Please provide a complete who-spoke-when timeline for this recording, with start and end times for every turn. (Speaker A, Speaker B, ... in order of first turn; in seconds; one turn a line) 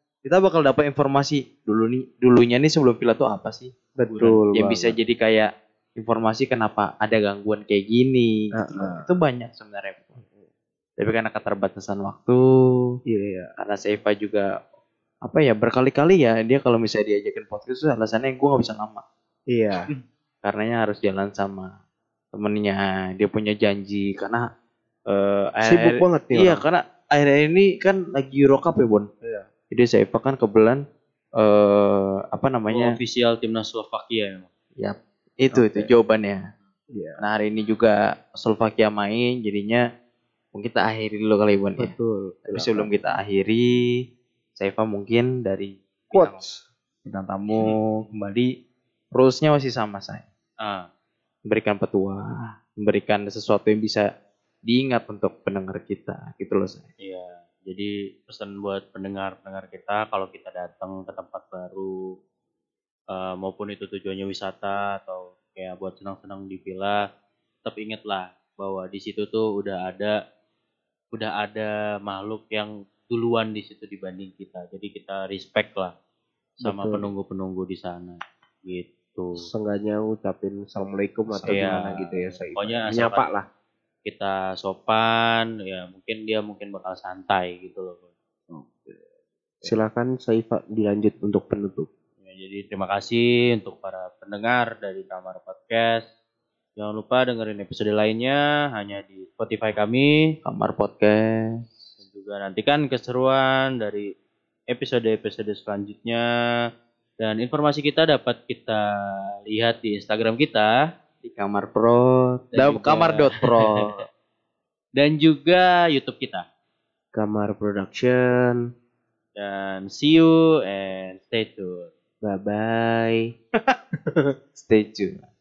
Speaker A: 0.2-10.3
Speaker B: 4.0-4.9
Speaker B: 8.5-9.1
Speaker A: 11.0-12.8
Speaker B: 13.1-13.5
Speaker A: 13.6-14.5
Speaker A: 15.2-19.0
Speaker B: 19.5-19.8
Speaker A: 20.4-21.7
Speaker A: 22.3-24.4
Speaker A: 25.1-29.1
Speaker B: 25.6-26.6
Speaker A: 29.7-30.8
Speaker A: 31.4-32.9
Speaker C: 32.7-34.5
Speaker A: 34.8-36.4
Speaker B: 35.5-35.9
Speaker B: 36.9-37.2
Speaker A: 37.2-39.8
Speaker A: 40.5-41.9
Speaker B: 41.8-42.9
Speaker A: 42.5-43.8
Speaker A: 44.6-46.4
Speaker B: 46.1-46.6
Speaker A: 47.0-48.5
Speaker A: 49.1-50.2
Speaker C: 50.6-50.9
Speaker A: 51.5-54.0
Speaker A: 54.7-56.9
Speaker C: 57.0-61.9
Speaker C: 63.1-67.0
Speaker C: 67.6-70.2
Speaker C: 71.1-75.9
Speaker C: 76.6-79.4
Speaker B: 76.6-77.1
Speaker B: 79.4-83.5
Speaker A: 81.3-82.0
Speaker C: 81.5-83.2
Speaker C: 84.0-88.1
Speaker B: 88.5-89.0
Speaker B: 89.6-91.9
Speaker C: 92.2-96.0
Speaker C: 96.8-100.3
Speaker A: 100.4-101.3
Speaker C: 102.0-104.1
Speaker C: 104.7-106.2
Speaker C: 107.2-108.8
Speaker C: 109.5-110.7
Speaker A: 111.2-114.0
Speaker C: 112.5-113.8
Speaker C: 115.0-116.4
Speaker B: 117.1-118.6
Speaker C: 119.3-121.9
Speaker B: 122.2-123.2
Speaker A: 124.5-125.3